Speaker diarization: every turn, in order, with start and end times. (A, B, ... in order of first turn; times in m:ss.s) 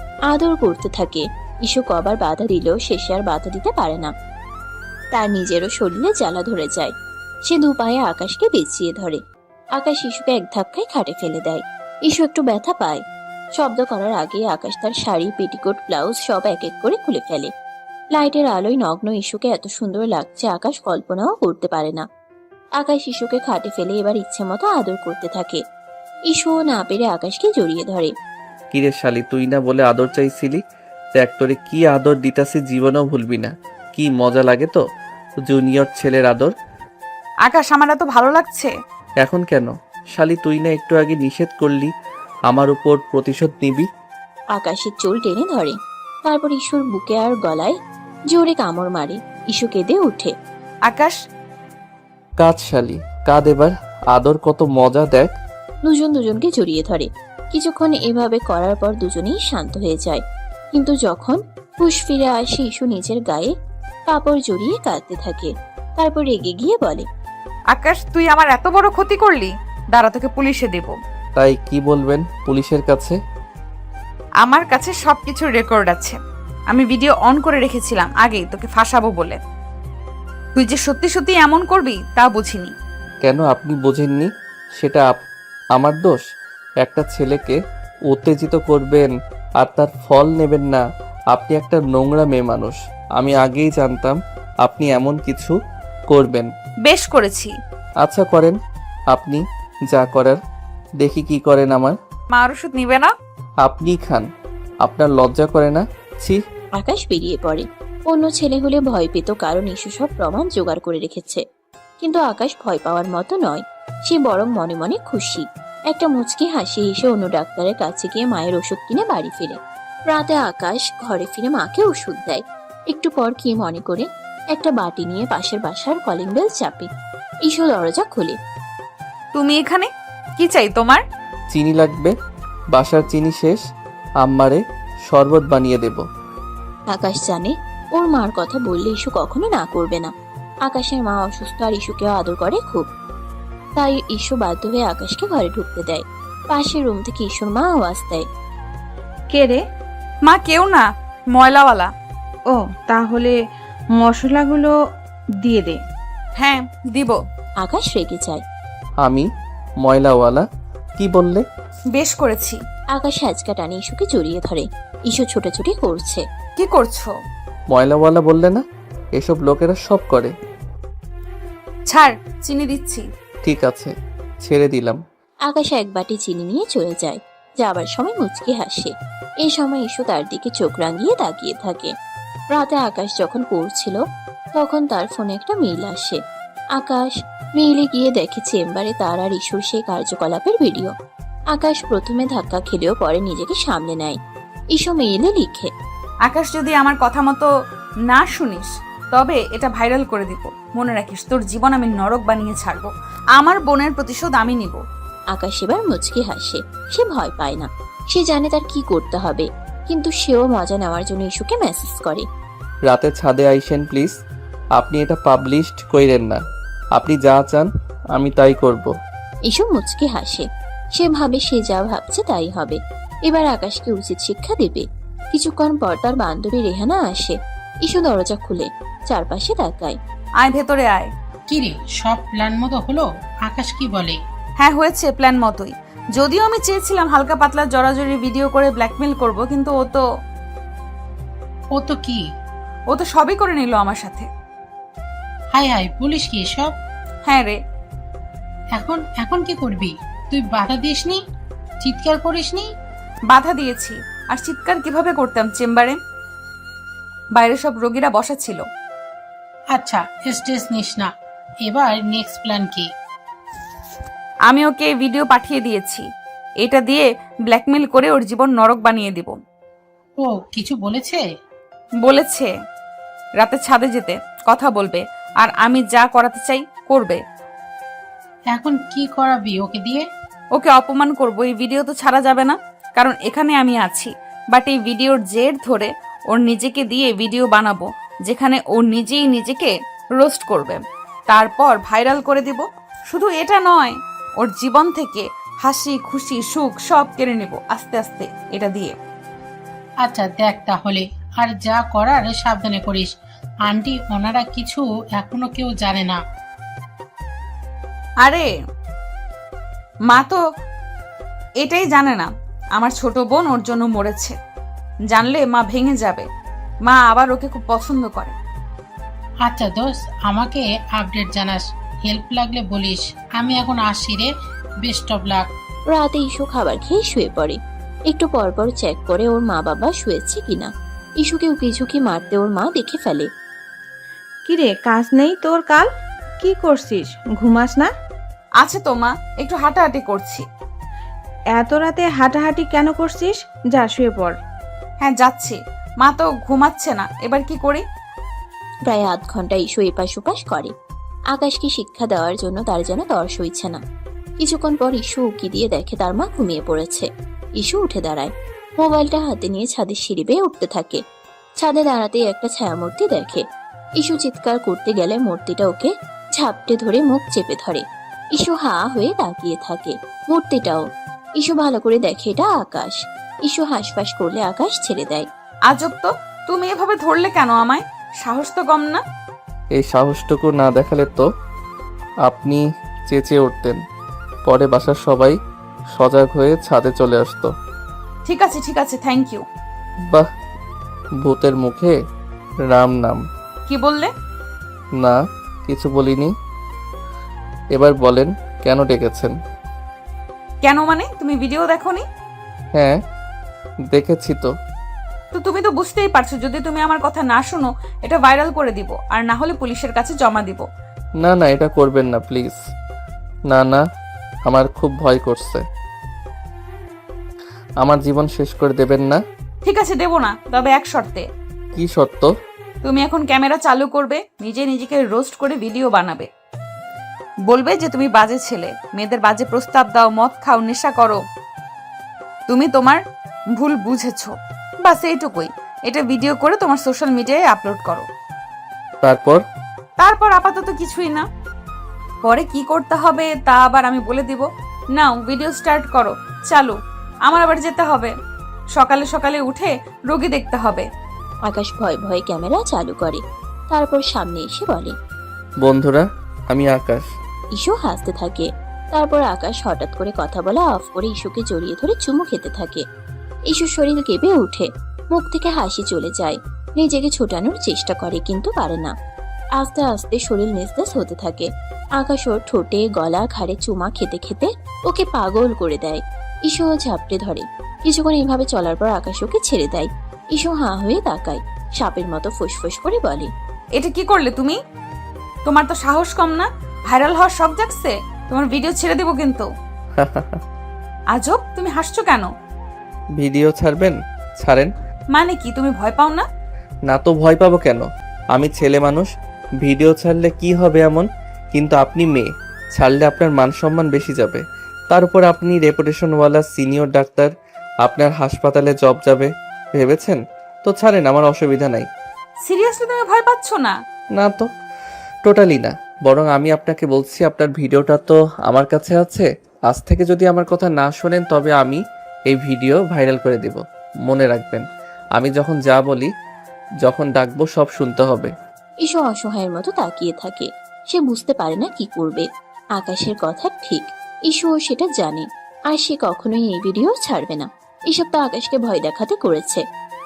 0:00.3-0:04.1 A
0:05.1-0:06.9 A
0:07.4-0:09.2 A
0:09.8-0:13.0 A
0:13.5-0:17.5 A
0:18.1-0:22.0 A
0:22.8-0:25.6 A
0:26.3-0:28.1 A
0:28.7-0:30.6 B
0:31.2-0:34.8 B
0:35.4-0:36.5 B
0:37.4-0:38.7 C
0:39.2-0:41.9 B
0:42.5-0:43.9 B
0:44.5-0:47.8 A
0:48.3-0:50.3 A
0:50.9-0:51.2 C
0:52.4-0:55.3 B
0:55.8-1:03.5 A
1:04.1-1:07.0 A
1:07.7-1:11.0 C
1:11.4-1:13.2 B
1:14.4-1:16.2 C
1:16.7-1:19.4 C
1:20.6-1:22.7 C
1:23.2-1:25.2 B
1:25.7-1:26.2 B
1:26.8-1:27.6 B
1:28.1-1:35.5 B
1:36.1-1:36.5 B
1:36.8-1:37.5 C
1:38.0-1:38.6 B
1:39.1-1:40.4 B
1:41.0-1:42.0 B
1:42.3-1:43.1 C
1:43.6-1:44.2 B
1:44.8-1:46.4 B
1:46.8-1:51.4 A
1:52.0-2:06.9 A
2:07.4-2:08.4 A
2:09.3-2:09.9 C
2:10.4-2:11.0 C
2:11.5-2:12.1 B
2:12.7-2:13.6 B
2:14.2-2:16.0 B
2:16.9-2:20.1 A
2:20.6-2:22.9 A
2:23.8-2:28.2 A
2:29.3-2:29.6 D
2:30.2-2:31.9 C
2:32.5-2:33.3 D
2:33.9-2:34.7 D
2:35.4-2:35.8 D
2:36.4-2:37.2 C
2:37.6-2:38.4 A
2:39.0-2:39.3 B
2:39.8-2:40.4 B
2:41.0-2:41.4 B
2:41.9-2:42.6 C
2:42.9-2:46.2 A
2:46.6-2:47.1 C
2:47.7-2:48.6 B
2:49.1-2:50.3 B
2:51.9-2:53.0 C
2:53.4-2:55.0 B
2:55.5-3:01.9 A
3:02.5-3:04.0 A
3:04.6-3:06.2 A
3:06.7-3:10.9 A
3:11.5-3:14.2 A
3:14.7-3:15.7 A
3:16.3-3:17.5 C
3:18.1-3:24.8 C
3:25.3-3:32.2 A
3:32.9-3:34.1 B
3:34.8-3:36.4 B
3:36.9-3:38.9 B
3:39.4-3:50.0 A
3:50.4-3:51.1 C
3:51.5-3:54.2 E
3:54.6-4:00.0 C
4:01.7-4:02.2 E
4:02.9-4:04.3 C
4:05.5-4:06.8 E
4:07.2-4:07.6 C
4:08.7-4:11.2 E
4:11.8-4:12.7 E
4:13.3-4:16.0 C
4:17.3-4:18.6 C
4:19.7-4:21.1 E
4:21.6-4:22.9 E
4:24.5-4:26.0 C
4:26.6-4:29.3 C
4:30.2-4:31.2 E
4:32.0-4:32.5 C
4:33.4-4:37.2 C
4:38.5-4:40.0 E
4:40.6-4:59.0 C
5:00.0-5:03.1 E
5:03.6-5:06.2 E
5:08.2-5:08.5 C
5:10.1-5:10.4 C
5:11.6-5:14.3 C
5:15.1-5:16.2 C
5:16.8-5:18.3 C
5:19.4-5:24.3 E
5:24.8-5:25.5 E
5:25.9-5:33.3 A
5:34.5-5:35.9 D
5:36.4-5:37.9 D
5:38.6-5:40.4 C
5:41.6-5:44.4 D
5:45.0-5:47.8 C
5:48.8-5:50.7 A
5:51.3-5:53.8 A
5:54.4-6:01.0 A
6:01.6-6:03.4 A
6:04.0-6:07.8 A
6:08.3-6:10.8 A
6:11.4-6:15.3 A
6:15.7-6:19.0 C
6:19.7-6:21.3 B
6:22.2-6:23.8 B
6:24.4-6:25.4 B
6:25.9-6:27.5 B
6:28.2-6:29.4 C
6:31.2-6:31.9 B
6:32.7-6:33.2 B
6:33.7-6:34.1 C
6:35.0-6:36.3 B
6:37.7-6:39.3 B
6:40.6-6:42.0 C
6:42.7-6:43.0 B
6:43.9-6:44.5 B
6:45.3-6:50.6 C
6:51.2-6:52.6 B
6:53.5-6:53.8 B
6:54.4-6:55.6 B
6:57.8-6:59.2 B
6:59.6-7:01.3 C
7:01.7-7:02.3 B
7:02.8-7:06.3 C
7:07.5-7:11.2 C
7:12.5-7:13.0 C
7:13.5-7:18.0 C
7:19.0-7:19.4 B
7:20.0-7:21.2 C
7:22.2-7:26.7 C
7:27.2-7:28.1 C
7:28.7-7:30.9 C
7:31.5-7:34.9 A
7:35.6-7:37.0 B
7:37.5-7:42.8 A
7:43.5-7:48.9 A
7:49.6-8:03.3 A
8:03.8-8:04.6 C
8:05.4-8:09.4 C
8:10.0-8:10.4 B
8:11.1-8:12.3 C
8:13.2-8:14.7 B
8:15.1-8:16.2 C
8:16.9-8:19.1 B
8:19.6-8:27.3 B
8:27.8-8:31.8 B
8:32.4-8:33.8 C
8:34.2-8:34.4 B
8:35.2-8:44.6 B
8:45.2-8:46.1 B
8:46.8-8:48.3 B
8:48.8-8:59.6 A